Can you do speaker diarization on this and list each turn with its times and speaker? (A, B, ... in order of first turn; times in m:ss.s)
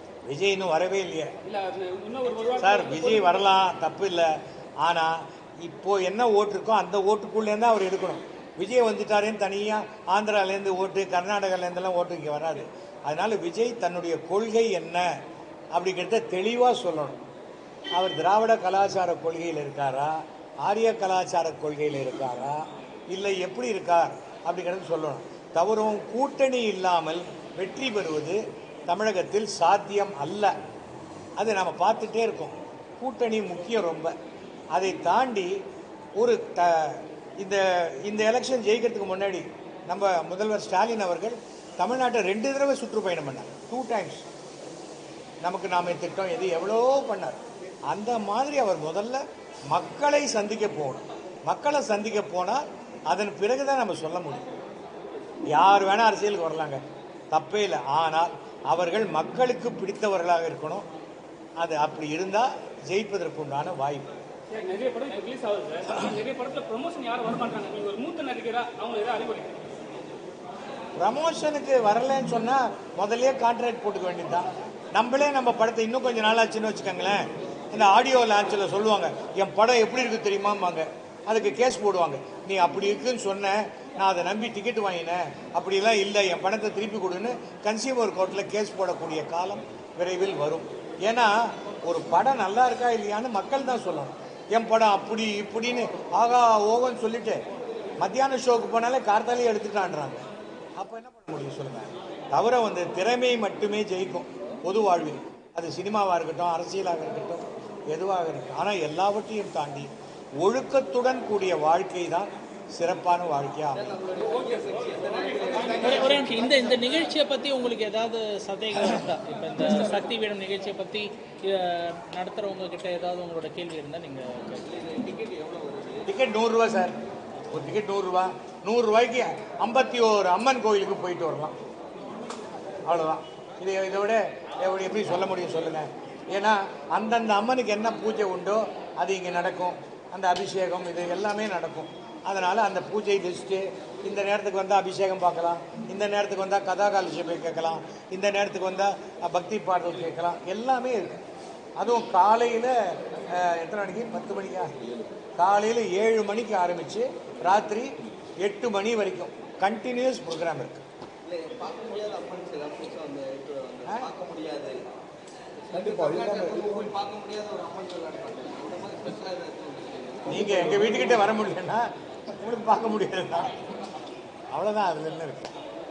0:00.2-0:01.3 A
0:01.4-0:03.5 B
0:02.4-0:15.1 A
0:15.7-0:17.2 A
0:17.9-0:30.5 A
0:31.4-0:34.1 A
0:34.7-0:35.6 A
0:36.2-0:44.2 A
0:45.4-0:54.5 A
0:55.5-0:56.8 A
0:57.3-1:00.9 A
1:01.6-1:04.2 A
1:04.5-1:09.6 B
1:11.0-1:37.4 A
1:38.0-1:40.2 A
1:40.8-1:49.9 A
1:50.4-1:54.0 A
1:53.8-1:56.4 C
1:54.4-1:55.8 B
1:55.8-2:04.7 D
2:04.7-2:06.0 C
2:06.0-2:06.9 A
2:07.5-2:11.5 A
2:12.8-2:31.2 A
2:31.8-2:34.7 A
2:35.4-2:40.8 A
2:41.2-2:44.9 C
2:45.7-2:50.9 C
2:45.7-2:46.9 A
2:50.2-2:53.6 A
2:54.5-2:55.5 A